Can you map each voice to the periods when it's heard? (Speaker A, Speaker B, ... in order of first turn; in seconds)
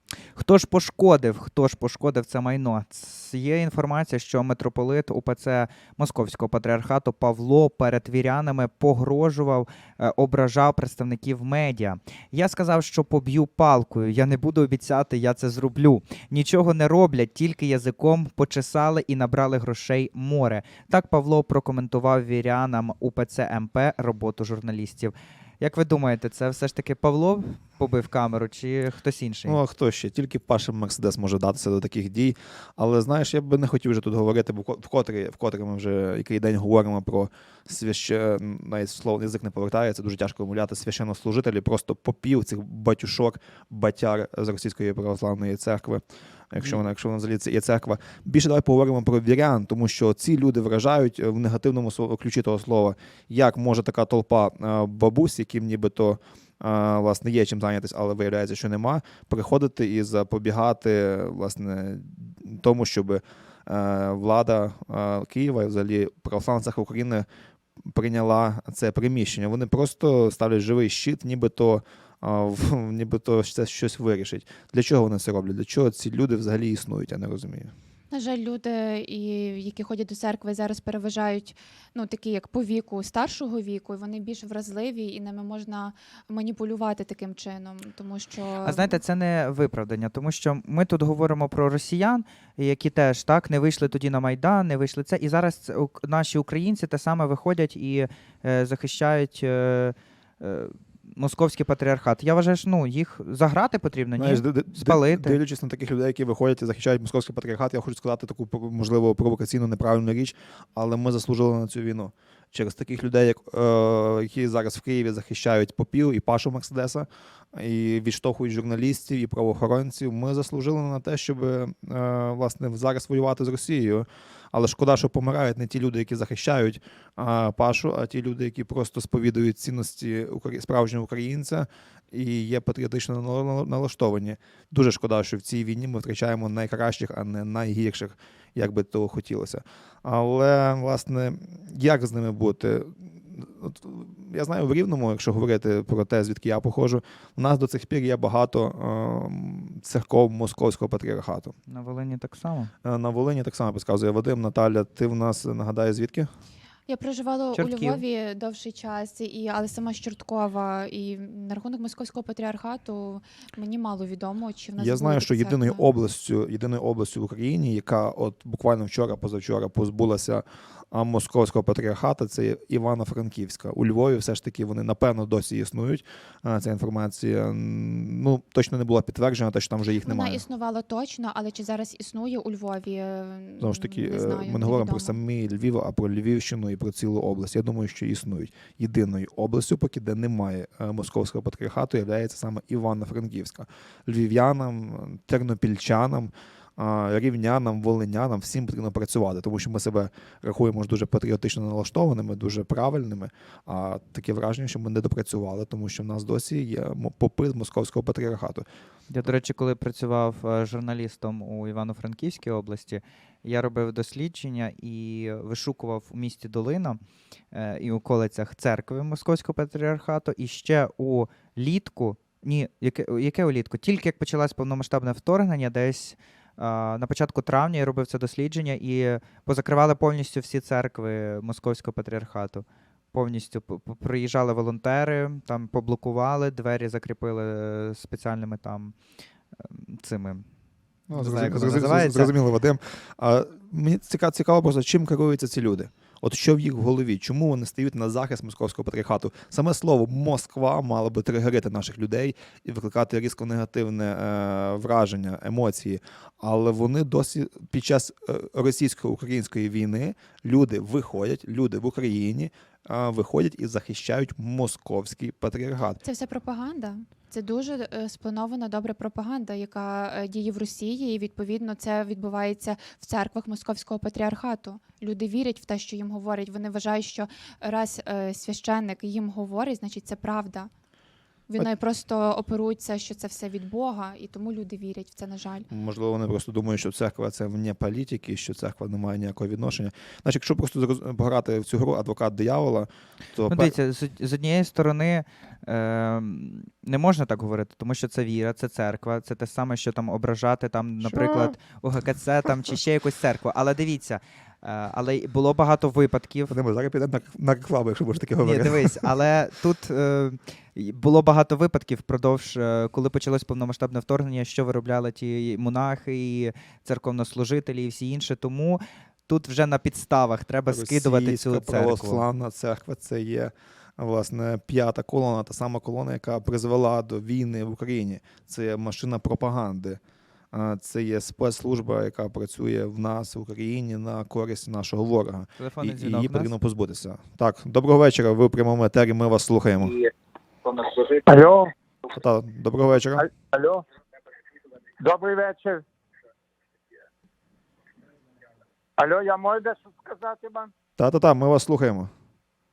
Speaker A: 0.4-29.6, 88.6-105.4, 151.7-152.7, 157.6-158.0, 209.1-217.0, 217.5-238.9, 239.6-240.4, 241.1-242.3, 293.5-306.6, 308.4-322.2, 335.6-336.5
Speaker B: 29.5-67.3, 67.9-77.7, 104.2-151.6, 152.8-156.3, 164.8-180.4, 183.6-208.7, 241.1-266.0, 285.7-293.7, 301.0-301.5, 306.5-309.1, 320.7-330.0, 330.5-340.0, 342.1-343.3, 351.0-352.1
Speaker C: 78.1-89.0, 156.9-165.9, 180.0-185.2, 266.0-280.7, 281.5-285.7
Speaker D: 340.7-341.7, 343.3-343.8, 345.0-345.8, 349.0-350.7